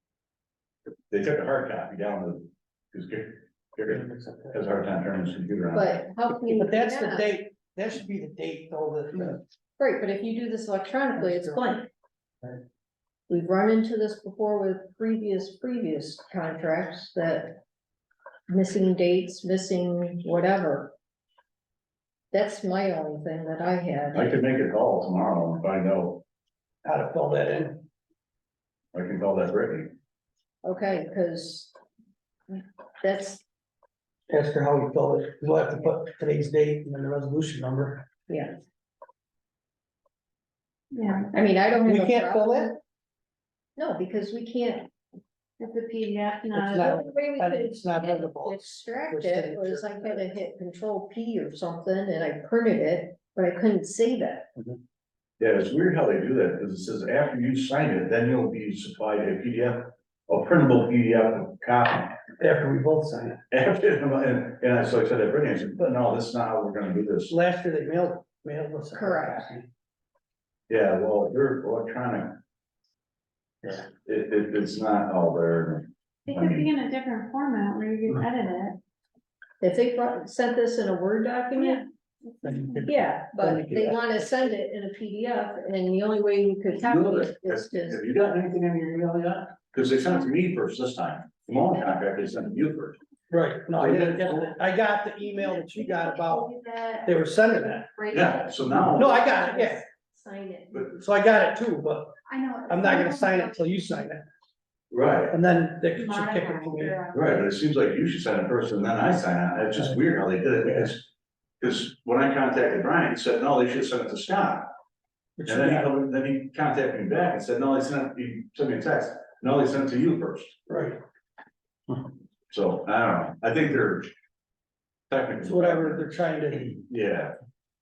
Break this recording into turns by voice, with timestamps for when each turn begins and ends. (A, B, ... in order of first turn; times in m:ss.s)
0:01.1-0:06.0 A
0:03.9-0:04.5 B
0:05.7-0:07.3 C
0:06.5-0:09.4 B
0:09.8-0:11.9 C
0:11.2-0:11.6 B
0:13.3-0:17.6 C
0:18.5-0:20.9 C
0:22.3-0:24.3 C
0:24.1-0:26.2 A
0:26.8-0:27.8 B
0:28.9-0:29.9 A
0:30.6-0:31.7 C
0:32.5-0:33.4 C
0:34.3-0:38.1 B
0:38.3-0:38.6 C
0:40.9-0:41.3 D
0:41.3-0:42.8 C
0:41.9-0:42.8 B
0:43.8-0:44.9 C
0:45.6-0:47.0 D
0:46.5-0:50.3 B
0:46.8-0:54.5 C
0:55.4-1:02.1 A
1:02.4-1:03.4 B
1:03.5-1:07.3 A
1:07.3-1:09.7 B
1:08.9-1:09.5 C
1:10.7-1:12.4 A
1:13.8-1:16.7 A
1:16.3-1:18.8 D
1:19.6-1:21.9 C
1:21.6-1:21.9 D
1:22.4-1:24.2 B
1:22.8-1:28.0 C
1:26.8-1:33.0 A
1:33.3-1:37.9 B
1:33.8-1:34.6 A
1:36.5-1:36.9 D
1:38.1-1:39.3 A
1:38.8-1:39.8 B
1:39.1-1:40.8 C
1:41.0-1:42.1 B
1:42.3-1:43.6 D
1:42.7-1:44.2 B
1:44.9-1:45.4 A
1:45.3-1:47.0 B
1:45.9-1:47.5 D
1:47.1-1:51.1 A
1:51.6-1:54.7 A
1:55.4-1:55.9 B
1:55.5-2:00.6 A
2:00.7-2:01.0 B
2:02.5-2:04.1 A
2:05.1-2:07.3 A
2:05.4-2:06.8 B